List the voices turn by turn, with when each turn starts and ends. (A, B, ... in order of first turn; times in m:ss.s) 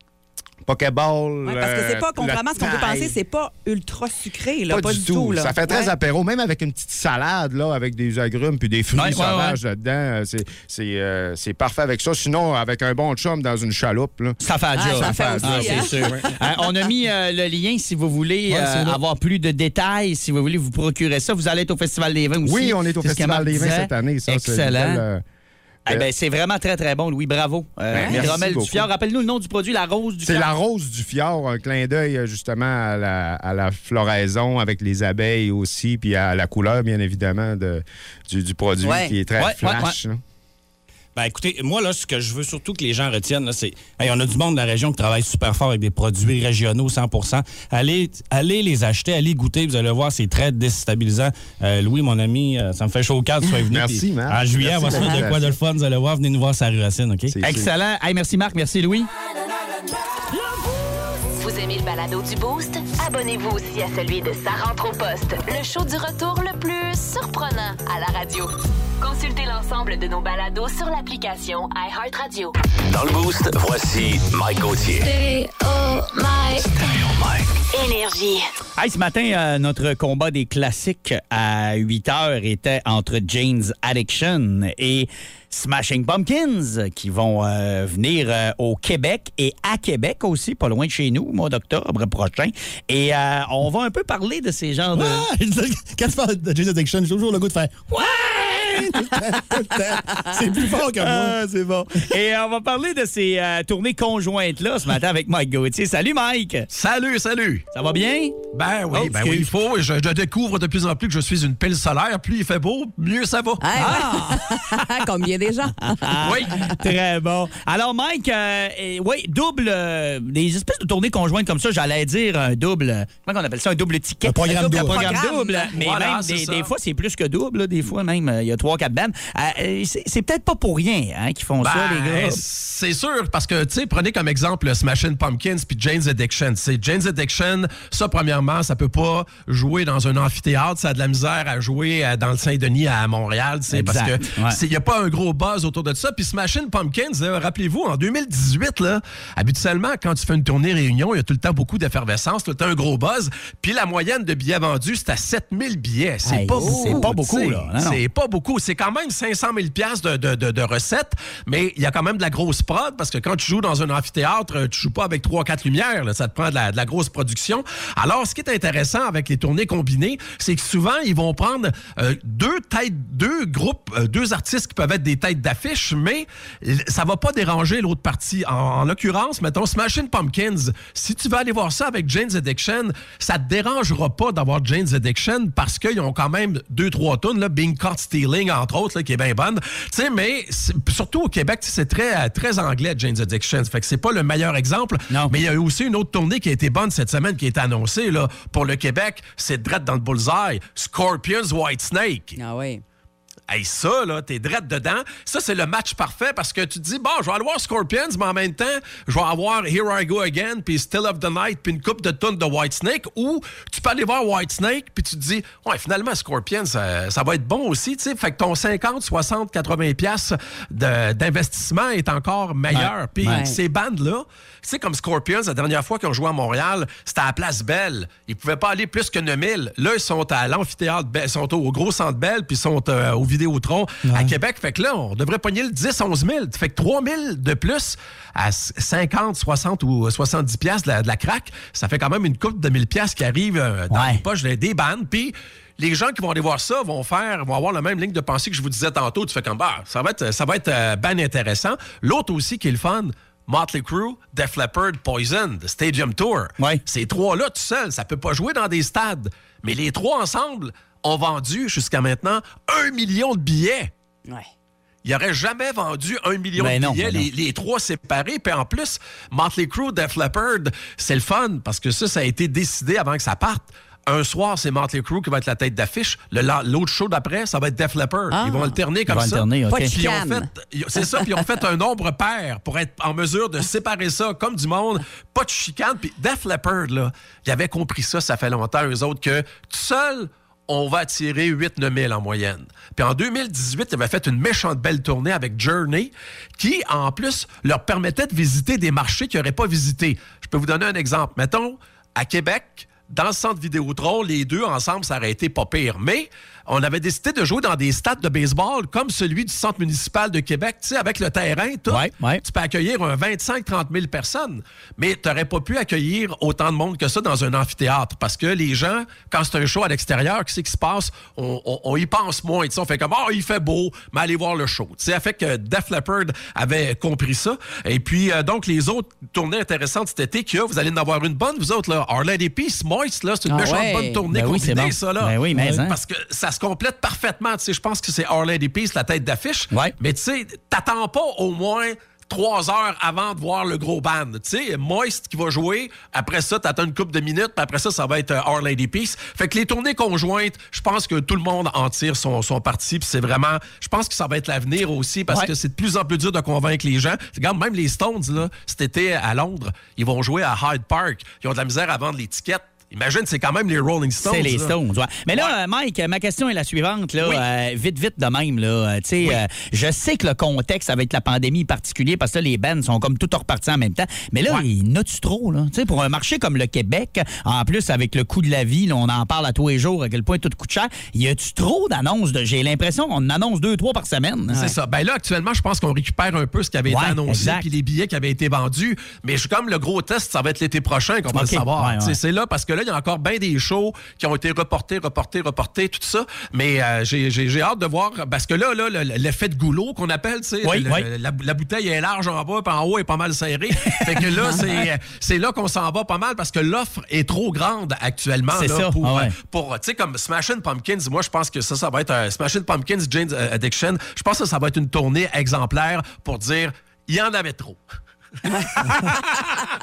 0:00.7-0:03.2 A
0:01.4-0:05.9 B
0:04.7-0:16.3 A
0:08.9-0:09.6 C
0:14.4-0:25.0 C
0:14.8-0:16.7 B
0:22.4-0:25.2 A
0:25.9-0:30.5 C
0:27.9-0:28.9 A
0:27.9-0:28.3 B
0:30.2-0:40.2 A
0:38.8-0:39.2 B
0:39.4-0:40.0 C
0:41.2-0:57.4 D
0:53.6-0:55.6 A
0:57.3-0:57.7 A
0:57.4-0:59.1 C
1:01.4-1:12.6 E
1:12.9-1:15.1 F
1:15.0-1:16.7 E
1:17.0-1:17.4 F
1:17.7-1:18.5 E
1:18.8-1:35.3 C
1:34.9-1:42.0 G
1:37.9-1:39.2 C
1:41.0-1:46.7 C
1:46.7-1:47.7 H
1:47.7-1:49.5 C
1:48.5-1:54.0 H
1:53.6-1:56.7 B
1:53.8-1:54.5 C
1:56.0-2:12.4 C
1:56.2-1:56.8 H
2:04.2-2:05.1 G
2:04.5-2:05.8 B
2:05.8-2:06.7 H
2:11.6-3:22.4 H
2:23.7-2:24.6 C
2:36.2-2:38.0 C
3:15.1-3:15.4 C
3:22.4-3:22.8 B
3:23.5-4:23.9 H
3:42.7-3:43.4 C
3:43.2-3:43.6 B
3:54.0-3:54.3 G
4:03.9-4:04.2 C
4:25.0-6:04.8 H
4:26.6-4:27.3 C
4:38.3-4:38.8 B
4:39.1-4:40.0 C
4:39.7-4:40.5 B
5:11.9-5:12.4 C
5:33.5-5:34.2 B
5:34.3-5:36.0 C
6:04.2-6:24.8 C
6:05.3-6:05.6 H
6:07.2-6:07.4 H
6:24.5-6:57.8 H
6:26.9-6:27.7 C
6:31.3-6:32.2 C
6:40.6-6:41.1 C
6:44.0-6:44.8 C
6:48.5-6:49.4 C